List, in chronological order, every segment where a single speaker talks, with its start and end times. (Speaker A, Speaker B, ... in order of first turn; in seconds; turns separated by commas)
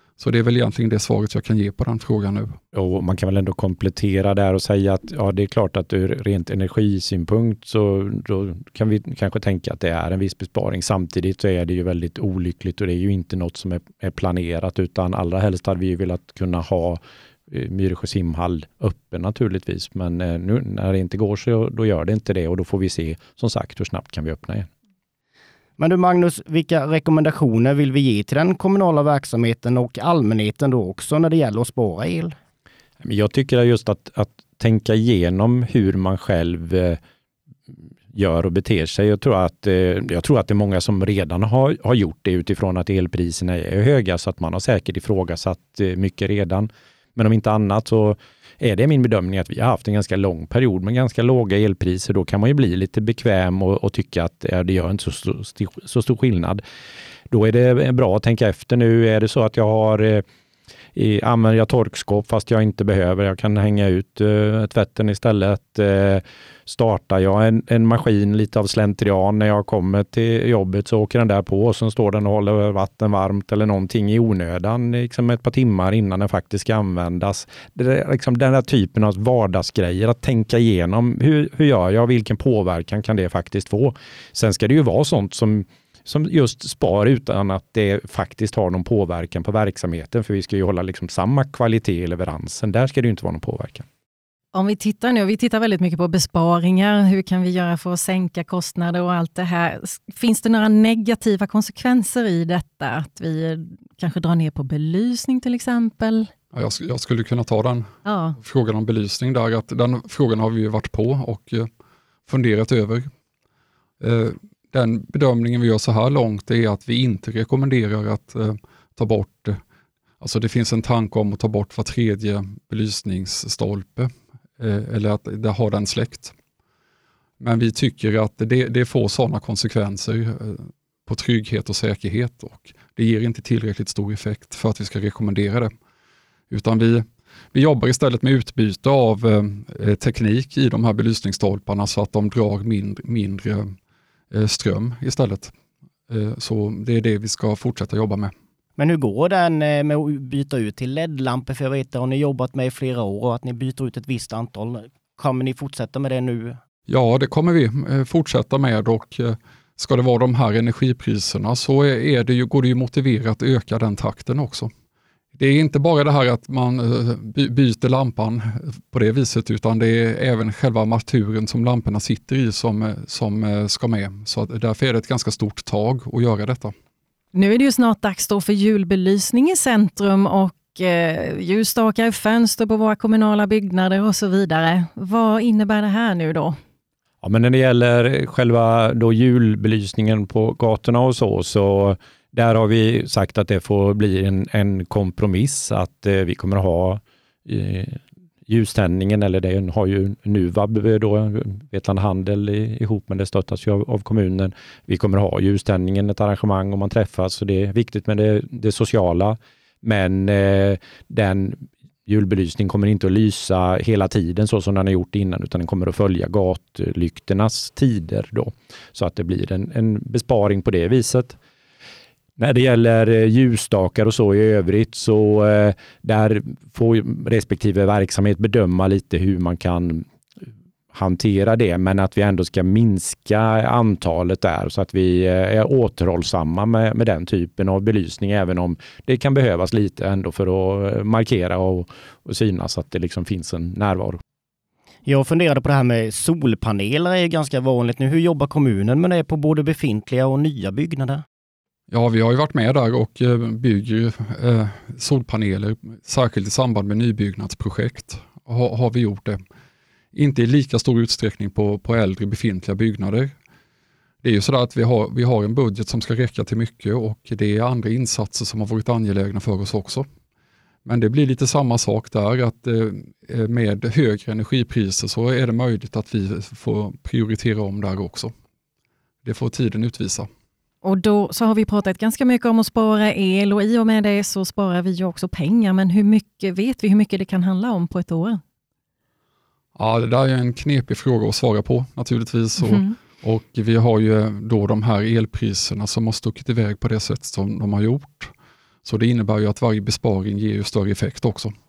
Speaker A: 0.2-2.6, Speaker B: 2.7-24.7, Speaker C: 25.8-32.4, Speaker B: 33.0-37.0, Speaker B: 38.1-56.6, Speaker B: 57.3-60.2, Speaker B: 61.0-93.8, Speaker D: 94.5-106.3, Speaker A: 106.5-107.9, Speaker D: 108.0-108.4, Speaker A: 108.4-111.7, Speaker A: 112.3-113.0, Speaker A: 114.0-119.6, Speaker A: 120.2-126.3, Speaker A: 127.4-135.7, Speaker A: 136.5-143.7, Speaker A: 144.3-145.5, Speaker A: 146.1-148.3, Speaker C: 148.8-156.6, Speaker A: 156.9-164.7, Speaker A: 165.3-176.7, Speaker D: 177.3-186.6, Speaker B: 187.2-221.4, Speaker B: 222.4-230.0, Speaker B: 230.9-244.2, Speaker C: 245.1-251.2, Speaker A: 251.9-259.4, Speaker A: 260.1-263.3, Speaker A: 264.2-270.1, Speaker A: 270.9-278.3, Speaker A: 279.2-280.3, Speaker D: 280.8-288.4, Speaker A: 289.8-298.3, Speaker D: 292.6-292.9, Speaker A: 298.8-301.5